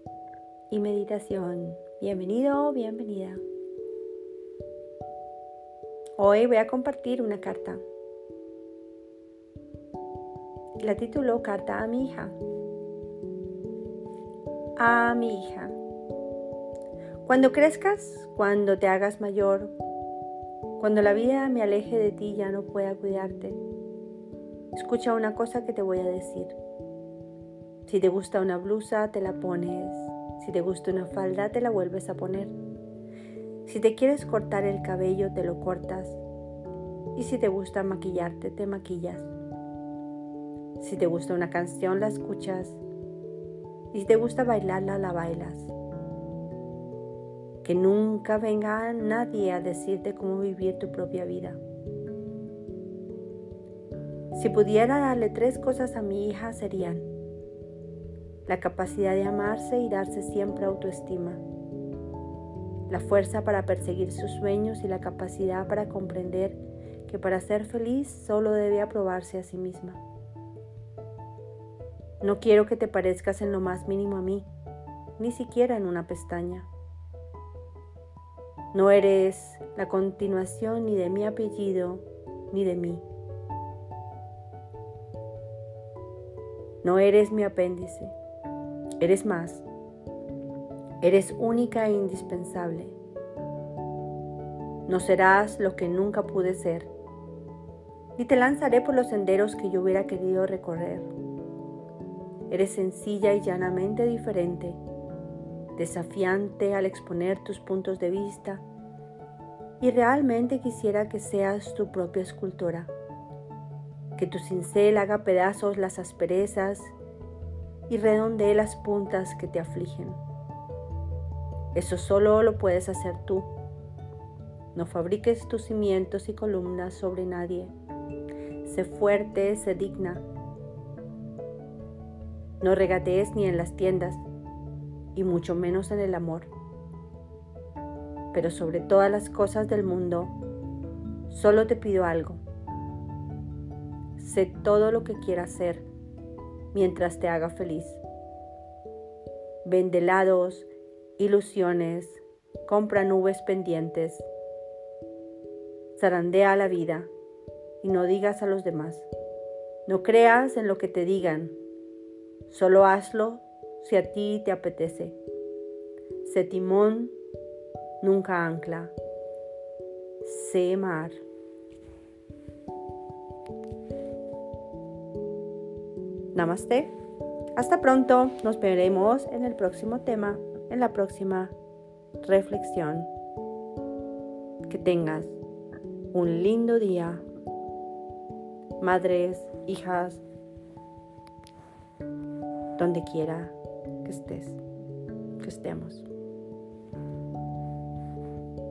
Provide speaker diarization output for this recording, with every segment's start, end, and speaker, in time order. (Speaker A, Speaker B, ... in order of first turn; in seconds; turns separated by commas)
Speaker A: 0.7-3.4, Speaker A: 6.2-7.8, Speaker A: 10.8-12.4, Speaker A: 14.8-15.8, Speaker A: 17.2-19.7, Speaker A: 20.8-23.6, Speaker A: 24.7-26.6, Speaker A: 27.9-32.5, Speaker A: 33.6-36.2, Speaker A: 37.1-39.3, Speaker A: 40.8-42.8, Speaker A: 43.9-45.7, Speaker A: 47.6-51.6, Speaker A: 54.3-57.1, Speaker A: 58.5-61.4, Speaker A: 62.9-70.0, Speaker A: 72.2-74.5, Speaker A: 75.2-76.7, Speaker A: 78.7-83.0, Speaker A: 86.8-88.1, Speaker A: 89.0-89.6, Speaker A: 91.0-93.0, Speaker A: 94.9-96.9, Speaker A: 98.2-101.1, Speaker A: 102.5-104.8, Speaker A: 105.8-108.6, Speaker A: 109.8-112.9, Speaker A: 114.2-116.9, Speaker A: 117.9-120.2, Speaker A: 121.7-123.5, Speaker A: 124.7-127.7, Speaker A: 128.6-130.2, Speaker A: 132.6-134.2, Speaker A: 135.1-136.5, Speaker A: 138.3-140.3, Speaker A: 141.3-142.4, Speaker A: 144.2-145.8, Speaker A: 146.7-148.0, Speaker A: 149.6-154.2, Speaker A: 155.9-157.1, Speaker A: 157.8-159.1, Speaker A: 159.8-161.6, Speaker A: 162.5-165.2, Speaker A: 166.2-167.1, Speaker A: 168.0-168.9, Speaker A: 170.2-171.2, Speaker A: 176.3-176.9, Speaker A: 177.6-181.5, Speaker A: 182.2-183.1, Speaker A: 184.7-185.4, Speaker A: 186.1-187.2, Speaker A: 188.8-190.2, Speaker A: 192.8-194.6, Speaker A: 195.4-196.1